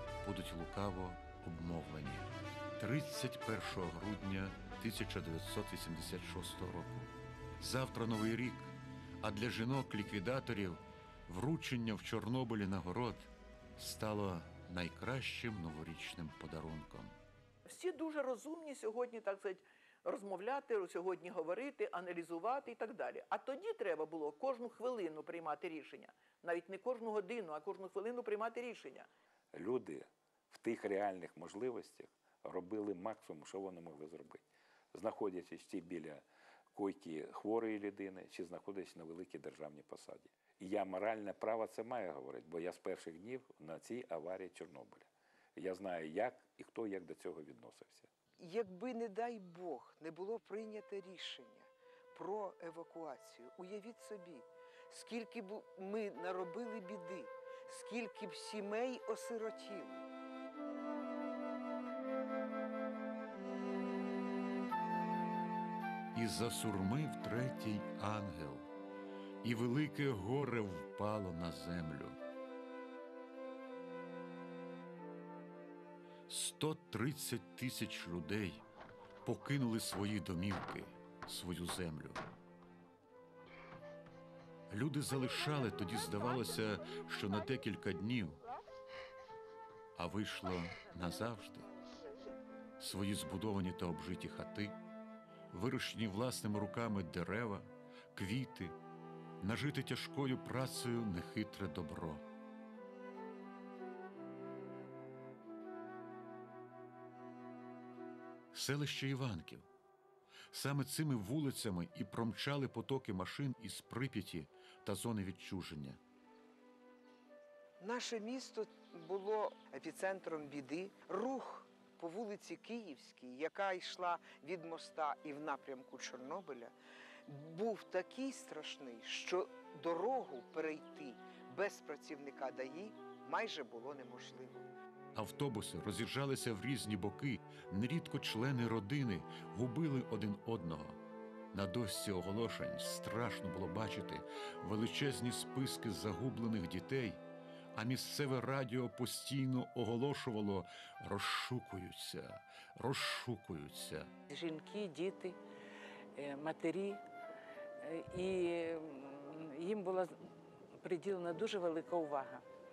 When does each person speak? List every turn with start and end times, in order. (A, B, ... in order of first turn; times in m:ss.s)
0:00.2-0:17.2 A
0:17.6-0:29.1 B
0:29.5-0:48.1 C
0:48.4-1:00.0 D
1:06.1-1:08.7 A
1:09.4-1:12.2 A
1:16.3-1:18.6 A
1:19.2-1:22.2 A
1:24.7-1:28.4 A
1:29.9-1:31.7 A
1:32.8-1:34.8 A
1:35.5-1:38.8 A
1:39.4-1:42.2 A
1:48.5-1:49.7 A
1:50.5-1:56.0 A
1:57.8-2:06.7 D
2:07.3-2:14.7 D
2:15.1-2:21.0 A
2:21.5-2:27.2 A
2:27.7-2:34.1 A
2:34.3-2:35.4 E
2:36.1-2:37.0 E
2:37.8-2:40.2 E
2:40.8-2:42.4 E